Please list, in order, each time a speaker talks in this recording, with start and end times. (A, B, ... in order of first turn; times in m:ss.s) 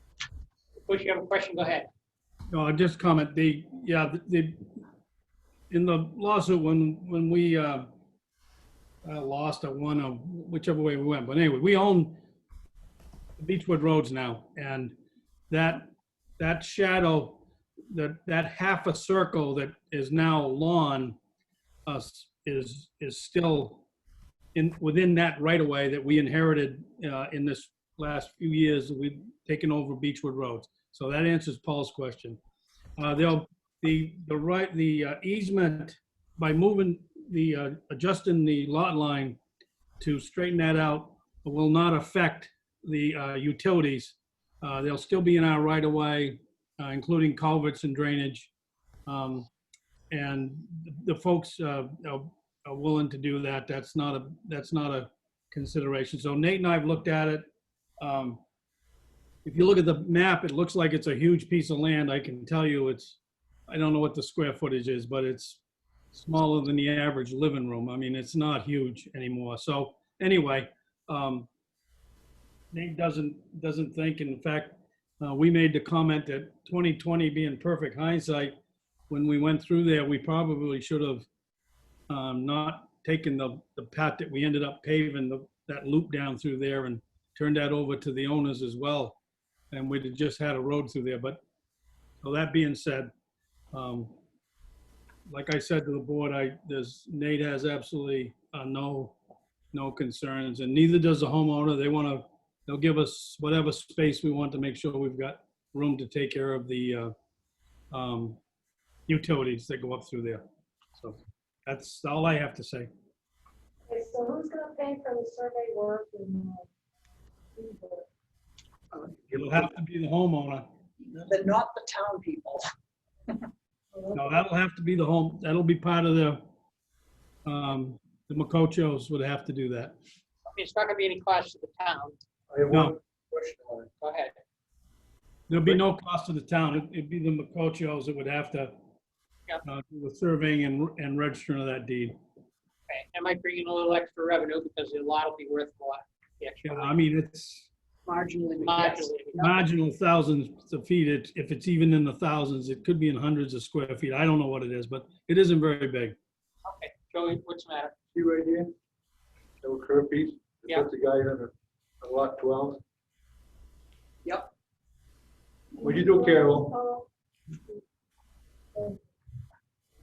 0:00.8-0:01.9 A
0:02.5-0:04.6 B
0:05.7-0:07.9 B
0:09.0-0:12.2 B
0:13.4-0:14.9 B
0:15.5-0:21.2 B
0:21.9-0:23.8 B
0:24.5-0:32.4 B
0:33.0-0:39.4 B
0:40.0-0:48.5 B
0:49.1-0:49.5 B
0:50.1-0:57.5 B
0:58.0-0:58.4 B
0:59.4-1:05.6 B
1:06.1-1:11.5 B
1:12.7-1:18.6 B
1:19.1-1:21.3 B
1:22.1-1:29.2 B
1:29.7-1:31.4 B
1:32.2-1:33.1 B
1:33.7-1:34.1 B
1:35.3-1:39.2 B
1:39.7-1:47.1 B
1:47.9-1:48.4 B
1:49.1-1:50.4 B
1:51.0-1:52.9 B
1:53.9-1:56.7 C
1:57.6-1:58.0 C
1:59.0-1:59.4 D
1:59.3-2:00.7 B
2:01.2-2:02.7 E
2:04.1-2:06.4 B
2:07.4-2:10.0 B
2:10.5-2:12.2 A
2:12.5-2:13.9 D
2:14.0-2:14.3 A
2:15.5-2:18.7 B
2:19.6-2:22.2 B
2:22.9-2:26.9 A
2:26.6-2:27.7 B
2:28.0-2:29.5 E
2:28.6-2:29.5 A
2:29.4-2:36.2 B
2:36.6-2:37.9 A
2:38.1-2:38.7 D
2:39.6-2:42.8 D
2:44.2-2:44.5 E
2:45.7-2:47.1 C
2:45.8-2:46.7 D